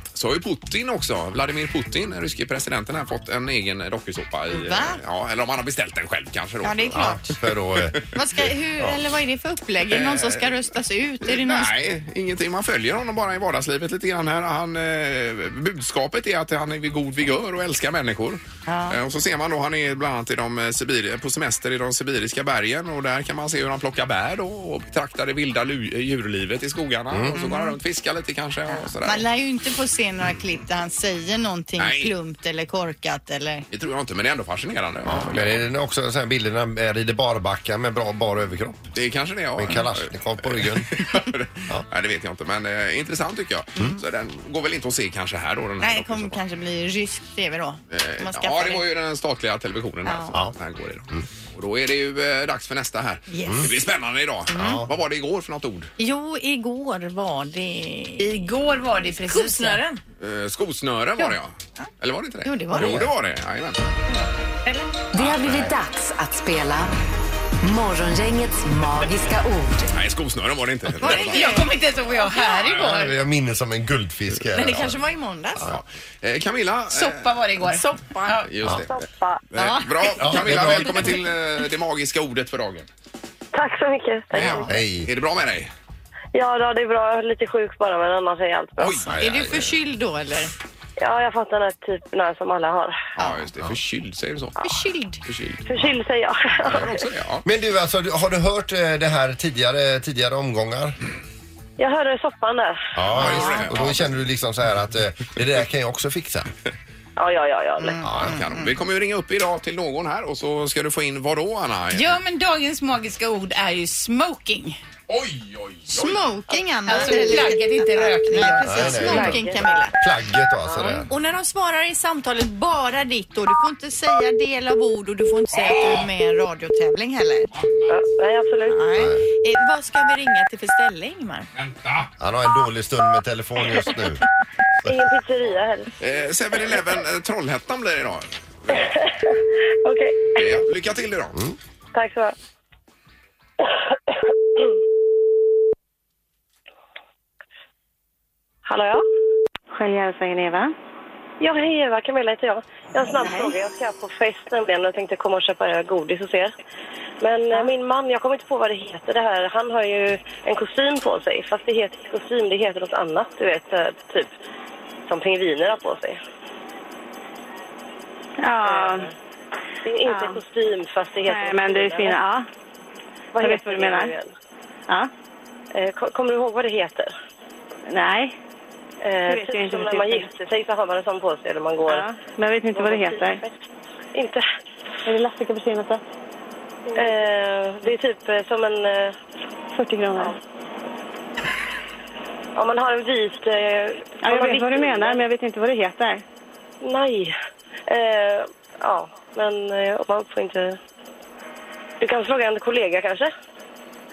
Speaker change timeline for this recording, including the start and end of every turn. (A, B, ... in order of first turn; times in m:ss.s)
0:00.1-0:07.2 A
0:04.5-0:05.0 B
0:06.6-0:07.4 B
0:06.9-0:09.0 C
0:08.1-0:11.7 B
0:09.9-0:10.6 A
0:11.2-0:29.2 A
0:18.7-0:19.0 B
0:27.1-0:27.4 C
0:27.3-0:27.7 B
0:28.7-0:33.6 B
0:31.8-0:32.1 A
0:33.7-0:35.6 A
0:35.0-0:38.9 C
0:38.9-0:46.4 A
0:39.6-0:40.9 C
0:45.8-0:48.8 B
0:47.9-0:55.9 A
0:50.0-0:50.4 B
0:53.3-0:53.7 B
0:53.5-0:53.7 C
0:54.5-0:54.9 C
0:54.5-0:54.8 B
0:56.0-0:58.3 B
0:58.2-0:59.8 D
0:59.2-1:00.0 B
1:00.2-1:03.9 A
1:01.2-1:01.8 B
1:02.4-1:03.0 B
1:02.7-1:03.1 C
1:05.1-1:06.9 E
1:05.2-1:05.7 A
1:07.6-1:09.9 E
1:09.9-1:11.6 A
1:11.0-1:13.0 B
1:11.0-1:13.1 D
1:12.7-1:15.0 C
1:14.5-1:15.7 B
1:15.7-1:17.3 A
1:16.9-1:18.5 D
1:17.8-1:18.2 B
1:18.4-1:18.9 A
1:18.7-1:19.4 F
1:19.5-1:22.9 A
1:19.6-1:20.6 B
1:20.2-1:21.1 C
1:23.5-1:24.7 F
1:24.4-1:25.7 A
1:24.4-1:24.7 B
1:24.6-1:25.1 C
1:26.3-1:29.1 F
1:28.8-1:29.1 A
1:29.1-1:29.7 C
1:29.2-1:30.5 B
1:31.0-1:33.0 F
1:33.2-1:34.7 A
1:33.2-1:33.5 B
1:34.6-1:35.2 B
1:35.2-1:35.7 A
1:35.6-1:37.1 F
1:36.7-1:37.4 A
1:37.4-1:41.0 C
1:41.8-1:42.9 F
1:42.9-1:46.5 C
1:43.1-1:44.1 A
1:43.1-1:43.9 B
1:47.2-1:48.0 F
1:47.8-1:48.7 B
1:48.0-1:48.4 C
1:48.1-1:52.2 A
1:51.9-1:54.8 D
1:55.1-1:56.2 A
1:55.9-1:59.9 B
1:56.8-1:59.3 D
1:58.6-2:01.1 C
1:59.0-1:59.9 F
2:00.7-2:01.0 F
2:01.1-2:07.5 B
2:05.6-2:06.0 A
2:07.5-2:07.9 A
2:07.9-2:08.8 F
2:08.7-2:11.5 B
2:09.0-2:09.2 C
2:11.5-2:12.1 A
2:12.2-2:14.2 C
2:14.8-2:15.9 F
2:16.0-2:18.9 A
2:18.7-2:20.5 F
2:20.4-2:21.4 A
2:21.9-2:22.3 F
2:28.6-2:29.0 F
2:29.7-2:30.7 G
2:31.4-2:36.5 F
2:33.1-2:33.5 G
2:37.2-2:44.3 F
2:45.1-2:46.2 F
2:48.4-2:49.1 G
2:48.6-2:49.1 F
2:49.8-2:52.2 F
2:50.1-2:50.4 G
2:51.2-2:52.5 G
2:53.3-2:54.3 F
2:53.4-2:54.1 G
2:55.7-2:57.1 F
2:57.9-2:58.3 G
2:59.0-3:02.1 F
2:59.2-3:00.3 G
3:01.9-3:03.4 G
3:02.7-3:03.6 F
3:04.1-3:04.4 F
3:05.0-3:06.0 G
3:06.9-3:09.2 F
3:09.7-3:10.3 G
3:12.6-3:15.2 F
3:14.2-3:16.2 G
3:16.8-3:17.3 F
3:17.9-3:20.8 F
3:22.0-3:23.3 F